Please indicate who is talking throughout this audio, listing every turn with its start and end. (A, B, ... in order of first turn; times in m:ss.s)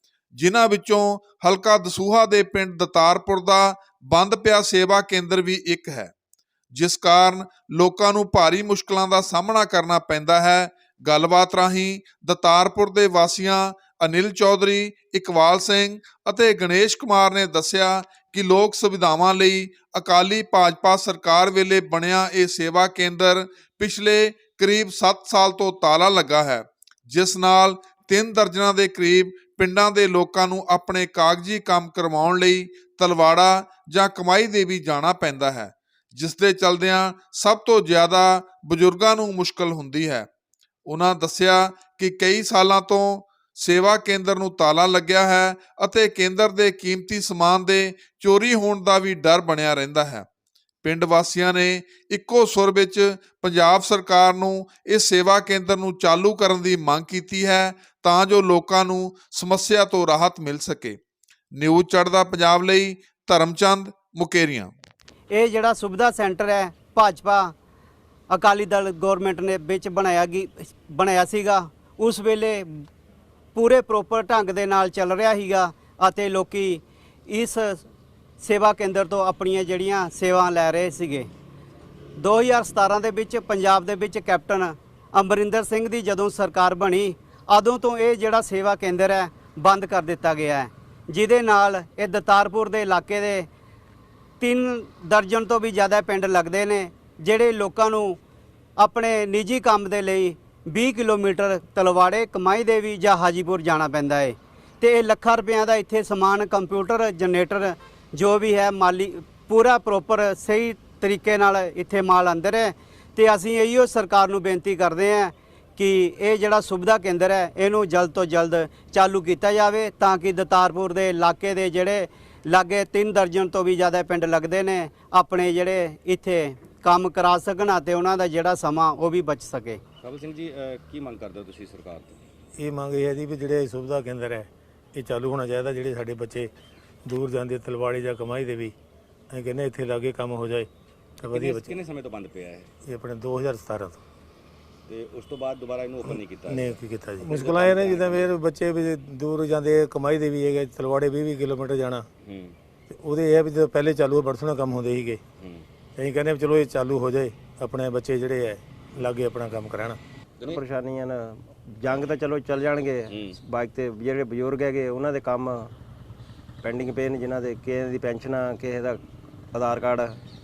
0:00.4-0:06.1 A
0:06.7-0:40.3 A
0:40.9-0:50.3 A
0:50.8-1:01.0 A
1:01.5-1:04.7 A
1:05.3-1:07.5 B
1:08.3-1:12.8 B
1:13.5-1:17.8 B
1:18.4-1:21.3 B
1:22.2-1:33.5 B
1:34.4-1:38.2 B
1:38.8-2:09.8 B
2:10.0-2:12.3 C
2:12.6-2:16.5 D
2:17.1-2:18.8 D
2:19.3-2:21.8 D
2:21.2-2:22.7 C
2:22.8-2:24.0 D
2:24.9-2:28.3 C
2:26.5-2:32.0 D
2:32.2-2:32.6 C
2:32.9-2:35.2 D
2:35.4-2:35.7 C
2:36.0-2:40.0 D
2:40.5-2:41.2 E
2:41.8-2:45.6 E
2:43.1-2:43.4 C
2:46.6-2:49.0 E
2:49.5-2:50.1 E